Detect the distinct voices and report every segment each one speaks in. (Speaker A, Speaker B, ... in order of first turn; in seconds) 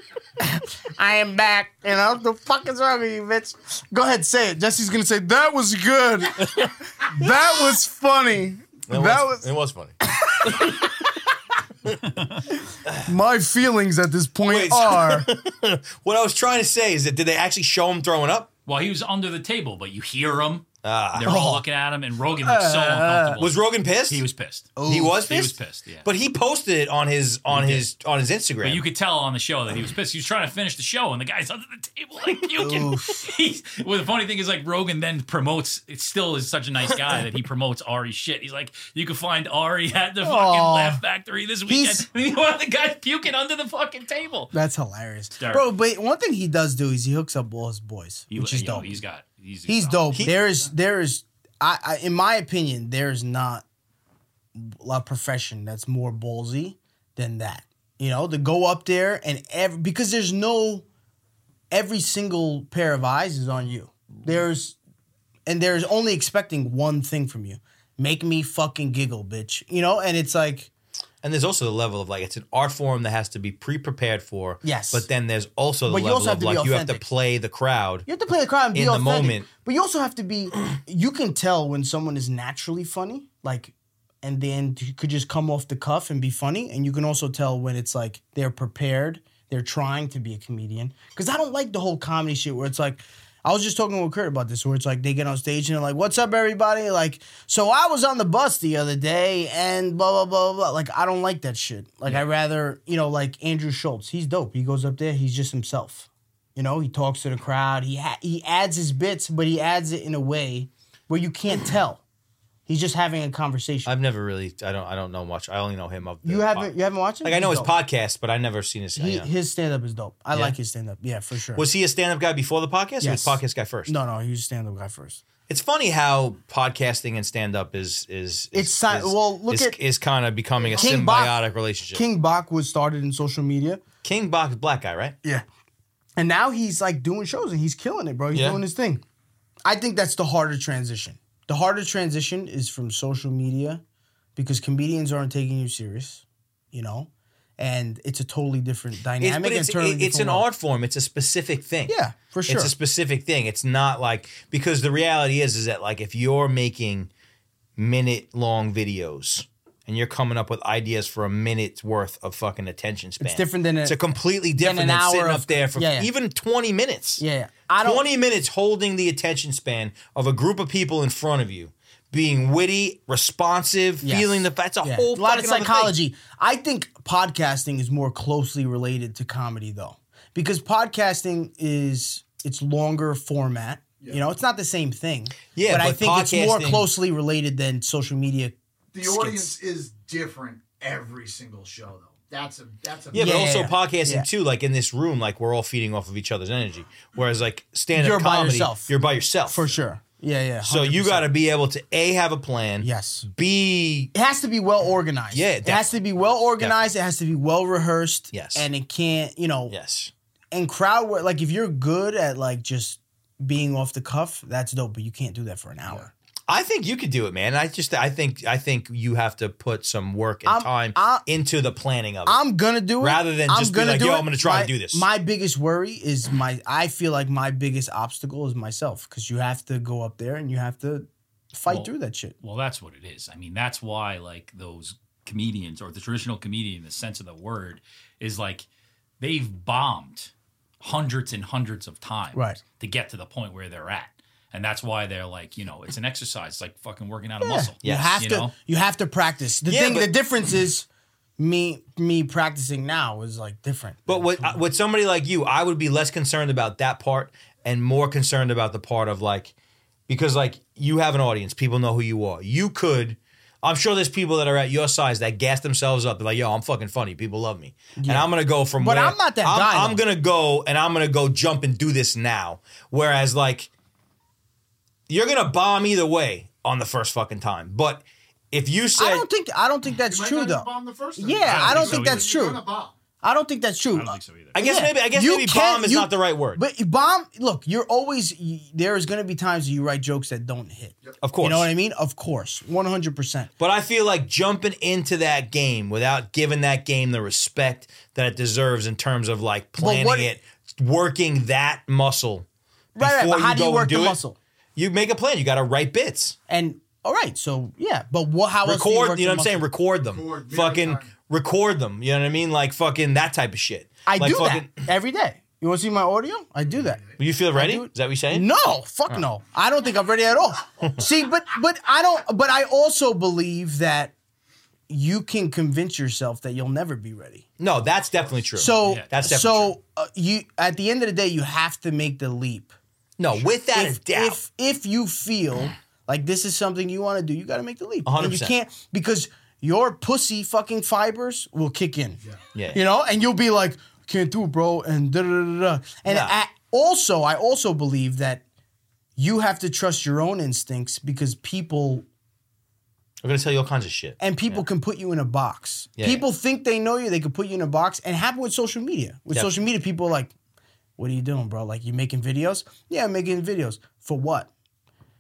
Speaker A: 0.4-9.5, 10.0-10.8, 12.5-15.3, 21.2-21.6, 22.4-23.4, 24.8-25.2, 32.6-33.3, 40.2-41.0, 41.7-42.0, 44.5-49.0, 49.7-53.6, 54.5-60.8, 61.7-64.8, 65.5-70.7, 74.6-75.1, 75.9-77.0, 78.1-112.0, 112.7-113.9, 116.2-117.7, 119.0-121.6, 123.0-125.2, 128.5-129.8, 130.7-131.4, 131.9-133.8, 136.2-139.0, 139.6-143.8, 144.3-150.4, 151.9-152.7, 163.2-164.0, 164.6-166.1, 167.2-168.0, 174.0-189.5, 193.1-194.3, 197.9-198.9, 199.5-201.3, 202.8-203.2, 204.1-209.7, 210.5-216.1, 220.4-221.2, 222.2-232.3, 242.3-242.6, 247.4-250.9, 251.4-254.6, 267.9-270.0, 278.9-282.6, 283.2-293.5, 299.8-300.3, 302.9-304.4, 306.5-309.6, 314.1-317.0, 317.5-324.1, 324.9-327.4, 328.6-332.7, 333.4-342.2, 342.7-348.4, 349.1-352.1, 354.2-360.3, 361.0-364.5
Speaker B: 6.4-6.7, 8.9-10.9, 14.5-18.5, 20.8-21.4, 23.4-24.2, 24.9-28.8, 50.1-50.4, 71.2-78.1, 78.7-79.5, 113.8-116.7, 117.2-119.3, 121.5-123.9, 125.5-132.0, 134.0-135.2, 138.3-138.6, 149.2-151.9, 152.5-157.1, 157.8-167.2, 167.8-175.9, 185.5-186.9, 193.1-199.7, 200.6-204.1, 205.3-205.9, 206.6-206.9, 208.3-208.7, 209.7-210.1, 216.5-222.4, 223.0-225.1, 247.8-248.2, 249.7-250.1, 254.1-259.5, 260.1-273.7, 275.1-279.2, 284.5-286.6, 291.2-291.7, 293.6-302.4, 303.0-304.2, 304.8-306.4, 308.6-314.8, 317.2-318.5, 327.6-329.7, 333.2-334.4, 338.0-338.5, 342.5-342.8, 346.1-346.4, 353.2-354.6, 356.0-356.2
Speaker C: 18.6-26.1, 27.5-27.8, 28.6-44.5, 45.4-45.7, 48.3-50.2, 232.4-238.7, 239.2-248.5, 281.4-282.3, 283.9-284.6, 328.8-329.1
Speaker D: 130.6-130.9, 188.9-193.5, 280.0-282.9, 310.1-311.1, 316.7-317.1